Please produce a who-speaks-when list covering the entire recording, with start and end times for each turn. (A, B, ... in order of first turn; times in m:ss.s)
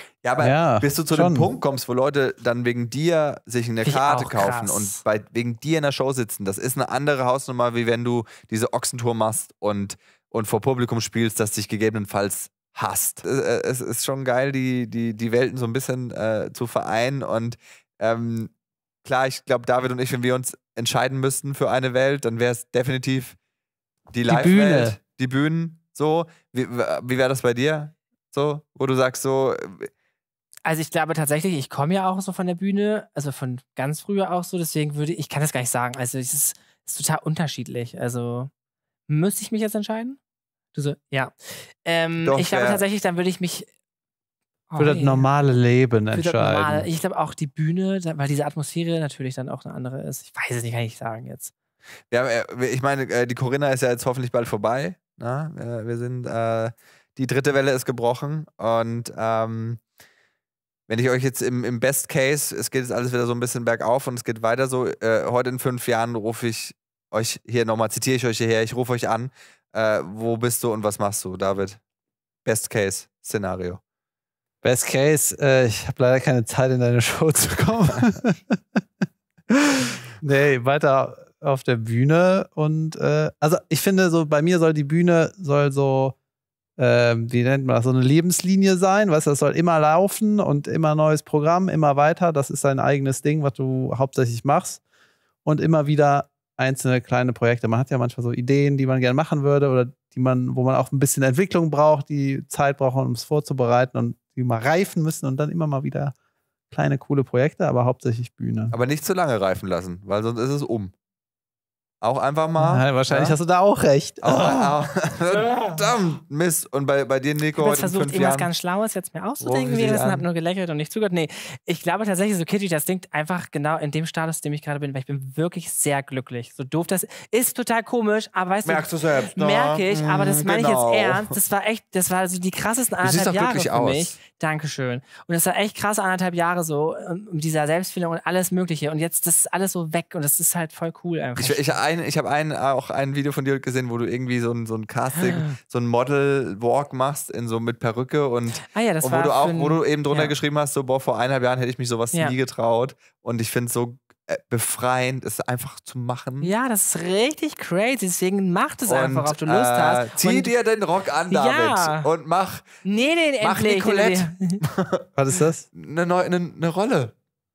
0:00.2-0:18.5 A
0:00.4-0:01.5 B
0:03.8-0:05.0 C
0:19.0-0:23.4 A
0:24.1-0:29.9 A
0:24.3-0:25.0 B
0:30.7-0:38.5 C
0:39.1-0:40.2 C
0:40.7-0:43.7 C
0:42.2-0:42.8 A
0:44.7-0:45.2 C
0:44.8-0:46.9 B
0:46.1-0:51.5 C
0:52.1-0:59.8 A
1:00.9-1:11.8 A
1:12.4-1:13.8 A
1:14.6-1:18.8 B
1:19.7-1:26.2 B
1:26.8-1:34.8 B
1:35.4-1:46.1 B
1:46.7-1:48.7 B
1:48.7-1:50.9 A
1:52.0-1:53.4 A
1:52.6-1:54.8 B
1:54.2-1:58.5 A
1:55.3-1:55.8 C
1:57.6-2:21.6 C
1:59.4-2:00.2 A
2:08.6-2:11.4 A
2:13.0-2:14.2 A
2:21.4-2:36.5 A
2:25.2-2:25.6 C
2:28.6-2:30.4 C
2:36.4-2:40.5 C
2:38.9-2:42.8 A
2:41.3-2:42.1 C
2:42.8-2:44.6 C
2:43.4-2:45.1 A
2:45.2-2:45.6 B
2:45.7-2:47.1 A